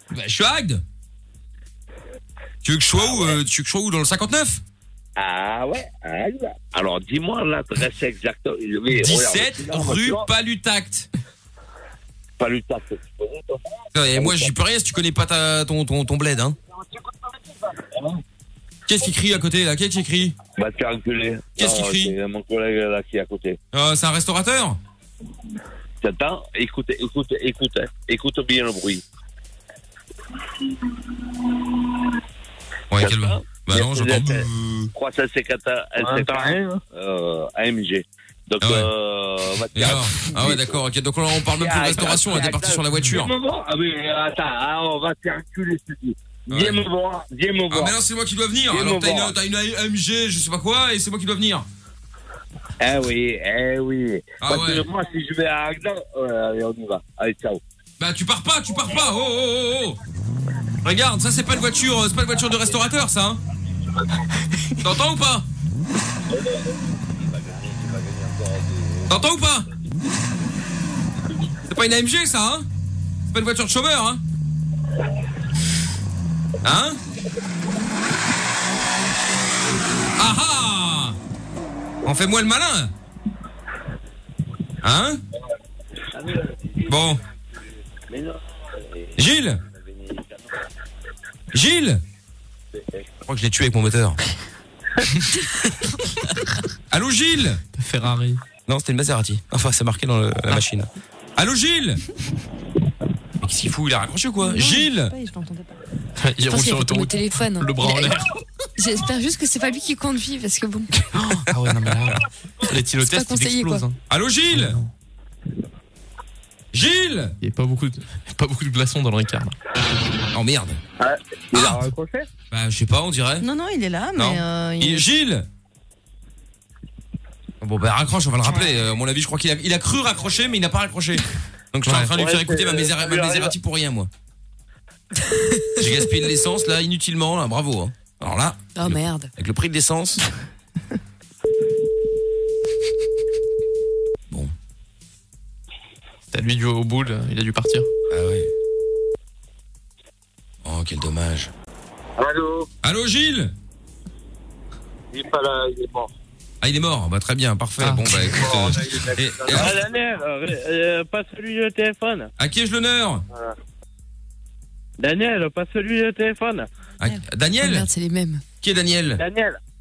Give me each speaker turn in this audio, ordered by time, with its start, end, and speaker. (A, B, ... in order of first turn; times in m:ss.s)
0:00.1-0:00.8 A
0:02.6-0:04.6 A
0:03.0-0:03.4 B
0:05.2-0:10.2 B
0:08.9-0:11.1 A
0:12.4-0:13.6 B
0:13.9-0:16.6 A
0:14.1-0:14.5 B
0:17.7-0:18.2 B
0:18.9-0:20.4 A
0:20.6-0:23.6 B
0:21.6-0:22.1 A
0:23.7-0:24.8 A
0:26.0-0:29.0 B
0:32.9-0:34.9 A
0:32.9-0:40.8 B
0:36.0-0:36.8 C
0:38.6-0:38.9 A
0:39.7-0:43.3 A
0:41.5-0:48.0 B
0:46.5-0:46.8 A
0:47.7-0:51.6 A
0:48.7-0:49.3 B
0:52.8-0:57.6 B
0:54.4-0:54.9 A
0:58.0-1:00.0 A
1:00.8-1:03.4 A
1:04.8-1:05.4 A
1:06.5-1:09.2 B
1:09.1-1:09.6 A
1:11.6-1:12.6 A
1:13.3-1:14.2 A
1:16.6-1:17.0 A
1:20.2-1:21.2 A
1:22.0-1:22.9 A
1:24.8-1:25.2 A
1:26.2-1:27.0 B
1:26.9-1:27.2 A
1:28.1-1:30.4 B
1:29.2-1:29.6 A
1:31.5-1:32.0 A
1:33.2-1:34.2 A
1:36.9-1:37.6 A
1:37.7-1:38.4 D
1:38.7-1:42.0 A
1:43.4-1:45.1 A
1:44.4-1:45.8 E
1:46.2-1:48.4 D
1:46.5-1:48.2 F
1:48.8-1:50.9 F
1:51.1-1:52.2 A
1:51.1-1:54.0 D
1:53.0-1:53.9 F
1:54.1-1:54.8 A
1:54.5-1:54.9 D
1:56.7-1:57.3 A
1:57.4-1:59.5 D
2:00.3-2:00.8 A
2:01.0-2:01.6 B
2:01.5-2:02.3 C
2:01.5-2:01.8 A
2:02.5-2:03.5 A
2:03.4-2:05.0 E
2:04.1-2:05.4 A
2:07.6-2:14.1 A
2:11.9-2:12.1 D
2:12.1-2:13.5 C
2:15.3-2:15.6 F
2:15.8-2:20.2 A
2:18.8-2:19.3 F
2:26.3-2:27.9 D
2:28.1-2:28.5 A
2:30.6-2:31.5 A
2:32.2-2:32.7 B
2:32.8-2:33.5 A
2:35.1-2:36.1 B
2:36.6-2:39.8 A
2:37.8-2:38.2 D
2:38.3-2:39.9 B
2:39.5-2:42.3 C
2:42.4-2:43.2 A
2:45.0-2:46.7 C
2:47.0-2:47.9 A
2:47.6-2:48.4 F
2:48.6-2:49.2 A
2:49.2-2:49.6 C